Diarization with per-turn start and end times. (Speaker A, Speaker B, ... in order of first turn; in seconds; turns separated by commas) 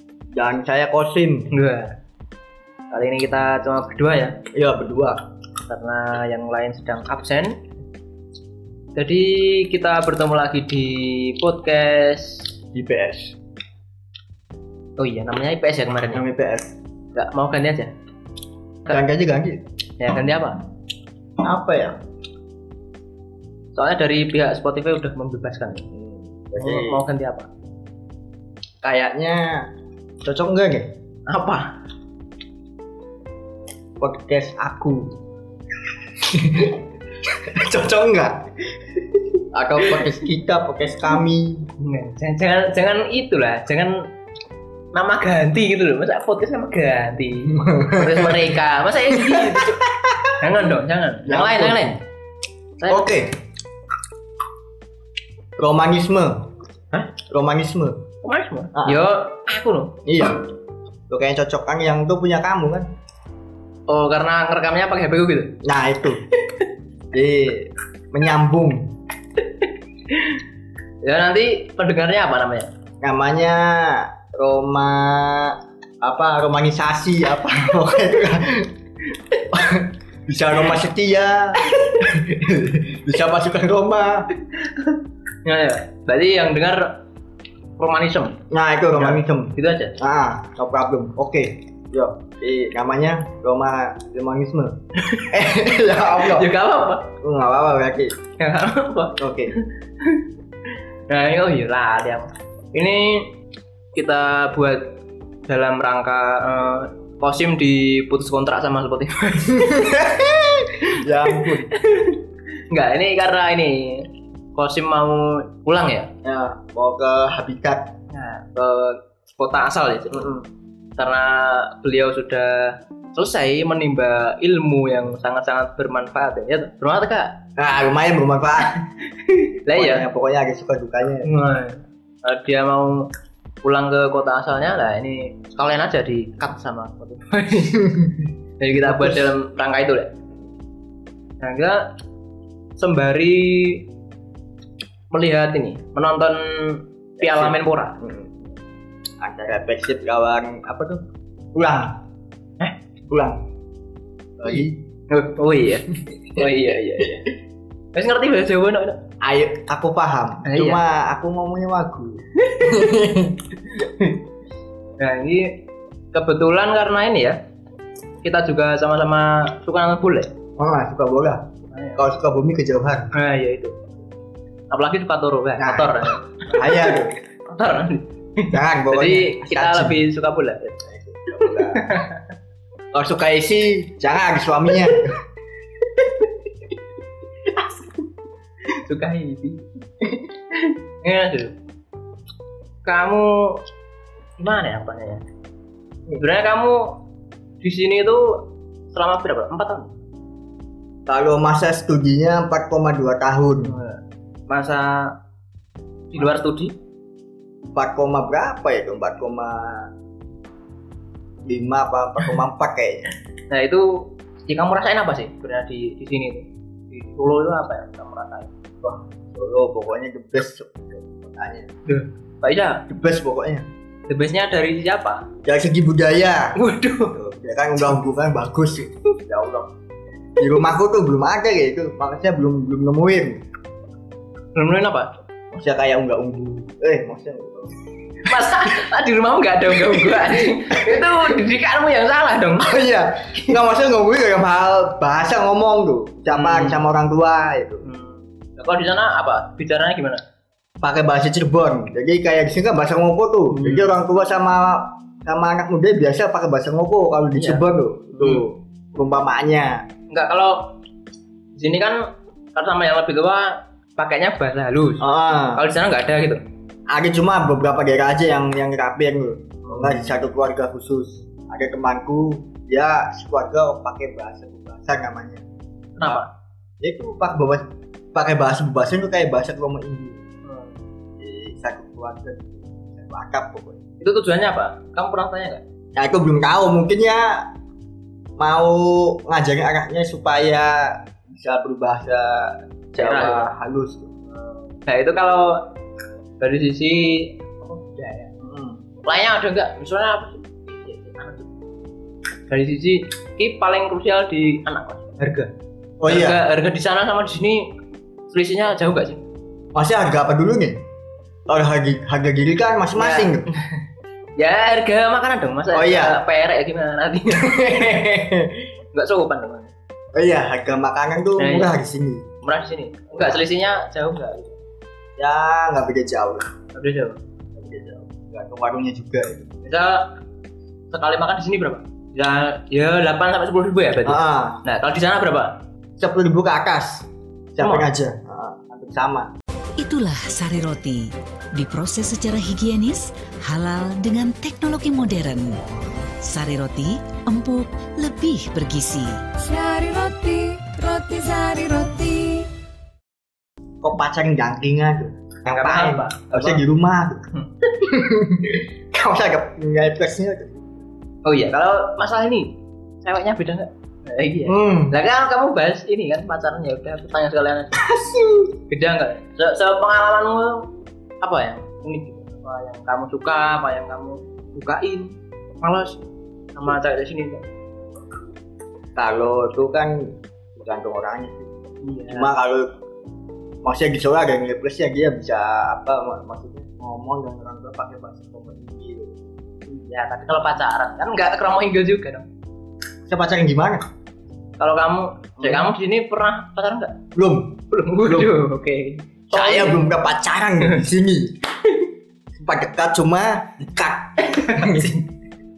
Speaker A: 0.3-1.5, Speaker B: 1.5-1.9, Speaker B: 2.9-4.4, Speaker A: 4.5-5.2, Speaker B: 5.7-7.6, Speaker B: 8.9-12.5, Speaker A: 12.7-13.3, Speaker B: 15.0-16.2, Speaker A: 16.1-16.7, Speaker B: 17.1-17.9, Speaker A: 18.9-19.6, Speaker B: 20.0-20.6, Speaker A: 21.4-22.0, Speaker B: 23.7-25.9, Speaker A: 25.9-27.0, Speaker B: 26.6-27.5, Speaker A: 28.8-29.7, Speaker A: 30.2-30.9, Speaker B: 31.3-31.7, Speaker A: 34.0-35.1, Speaker A: 36.2-38.5, Speaker A: 39.5-41.7, Speaker B: 41.8-44.0, Speaker B: 44.9-49.8, Speaker A: 47.5-48.5, Speaker A: 49.1-50.3, Speaker B: 50.4-52.0, Speaker A: 51.2-51.9, Speaker B: 52.8-53.1, Speaker A: 52.9-53.3, Speaker A: 55.6-56.5, Speaker A: 57.2-58.0, Speaker B: 58.2-59.9, Speaker A: 58.7-59.0, Speaker A: 60.0-60.5, Speaker A: 61.1-62.9, Speaker B: 63.9-65.5, Speaker A: 65.6-66.2, Speaker A: 67.1-68.9, Speaker B: 69.6-70.4, Speaker B: 71.0-72.7, Speaker A: 73.0-78.7, Speaker A: 79.5-84.3, Speaker B: 84.6-84.9, Speaker B: 85.4-87.0, Speaker B: 87.8-88.4, Speaker A: 88.5-96.5, Speaker B: 88.9-90.0, Speaker B: 96.1-97.1, Speaker A: 97.2-98.1, Speaker B: 98.4-100.2, Speaker A: 99.2-99.5, Speaker B: 101.1-103.3, Speaker B: 103.9-110.0, Speaker A: 109.5-111.7, Speaker B: 111.3-116.1, Speaker A: 116.2-117.9, Speaker B: 118.1-120.4, Speaker A: 120.1-120.4, Speaker B: 121.0-127.4, Speaker A: 127.6-128.8, Speaker B: 129.2-130.1, Speaker A: 129.7-131.3, Speaker B: 131.2-133.1, Speaker B: 133.6-137.8, Speaker A: 137.8-138.3, Speaker B: 138.6-140.1, Speaker A: 138.8-139.3, Speaker B: 141.4-141.8, Speaker B: 142.8-143.8, Speaker B: 145.1-148.0, Speaker A: 147.2-148.4, Speaker A: 149.2-151.0, Speaker A: 151.5-152.0, Speaker A: 153.1-153.4, Speaker A: 154.4-154.8, Speaker B: 154.5-157.3, Speaker B: 157.9-159.0, Speaker A: 159.2-163.5, Speaker B: 160.4-160.8, Speaker B: 162.4-162.8, Speaker B: 163.8-164.2, Speaker B: 165.0-165.6, Speaker B: 166.1-167.4, Speaker B: 168.2-170.3, Speaker A: 170.6-171.4, Speaker B: 171.7-172.0, Speaker A: 172.0-173.1, Speaker B: 173.1-173.8, Speaker B: 174.7-180.8, Speaker A: 175.6-177.1, Speaker A: 178.5-180.0, Speaker A: 180.8-181.9, Speaker B: 181.4-182.2, Speaker A: 182.9-185.2, Speaker B: 187.6-187.9, Speaker B: 188.7-191.5, Speaker B: 192.8-193.6, Speaker B: 194.4-195.2, Speaker B: 196.2-197.0, Speaker B: 197.6-199.9, Speaker A: 201.1-203.7, Speaker B: 203.6-205.1, Speaker B: 206.1-206.7, Speaker A: 207.7-209.9, Speaker A: 211.4-213.1, Speaker B: 213.5-218.5, Speaker A: 218.8-221.7, Speaker B: 221.8-222.8, Speaker A: 222.9-223.7, Speaker B: 224.1-225.3, Speaker A: 225.4-226.6, Speaker B: 226.6-227.1, Speaker A: 227.1-229.7, Speaker A: 230.4-233.4, Speaker B: 234.5-235.2, Speaker A: 235.5-237.8, Speaker B: 238.2-242.7, Speaker A: 239.7-241.3, Speaker A: 242.6-247.8, Speaker B: 246.3-246.8, Speaker B: 247.8-250.2, Speaker A: 250.8-259.9, Speaker B: 253.5-253.9, Speaker B: 257.3-257.6, Speaker B: 258.1-258.4, Speaker B: 260.1-260.7, Speaker B: 261.5-266.4, Speaker A: 265.0-265.6, Speaker A: 266.9-275.4, Speaker B: 269.6-270.1, Speaker A: 276.0-276.2, Speaker B: 276.0-276.3, Speaker A: 276.8-280.2, Speaker B: 280.4-280.7, Speaker A: 281.2-283.8, Speaker B: 284.0-285.6, Speaker A: 285.9-287.5, Speaker A: 288.4-294.1, Speaker B: 292.9-293.5, Speaker B: 294.7-295.6, Speaker B: 296.4-298.2, Speaker A: 298.0-298.7, Speaker B: 299.0-301.5, Speaker B: 302.5-305.5, Speaker A: 306.0-306.4, Speaker B: 306.1-307.7, Speaker B: 308.3-309.2, Speaker A: 309.7-310.8, Speaker A: 311.5-313.5, Speaker B: 312.9-313.8, Speaker B: 314.4-318.1, Speaker A: 315.7-316.2, Speaker A: 317.3-318.6, Speaker B: 318.9-319.7, Speaker A: 320.1-322.3, Speaker B: 321.4-321.7, Speaker B: 322.4-324.5, Speaker A: 323.1-323.4, Speaker A: 325.2-326.4, Speaker B: 326.7-327.2, Speaker A: 327.5-329.5, Speaker B: 329.6-330.1, Speaker B: 330.9-335.5, Speaker A: 334.0-334.6, Speaker A: 336.0-339.3, Speaker B: 337.6-337.9, Speaker C: 339.8-345.6, Speaker C: 346.2-349.2, Speaker D: 349.4-352.5, Speaker A: 353.8-357.2, Speaker B: 355.5-356.6, Speaker A: 357.8-360.8, Speaker B: 361.2-367.8, Speaker A: 364.5-364.9, Speaker A: 367.7-368.5, Speaker B: 368.7-370.7, Speaker B: 371.2-376.0, Speaker B: 376.5-377.4, Speaker A: 378.9-381.5, Speaker B: 381.8-382.3, Speaker A: 382.1-382.7, Speaker A: 383.6-389.1, Speaker B: 389.7-392.3, Speaker A: 393.1-393.8, Speaker B: 394.6-396.9, Speaker A: 395.4-395.7, Speaker A: 397.1-398.3, Speaker B: 397.7-399.9, Speaker A: 399.3-401.3, Speaker A: 402.3-404.9, Speaker B: 404.2-405.0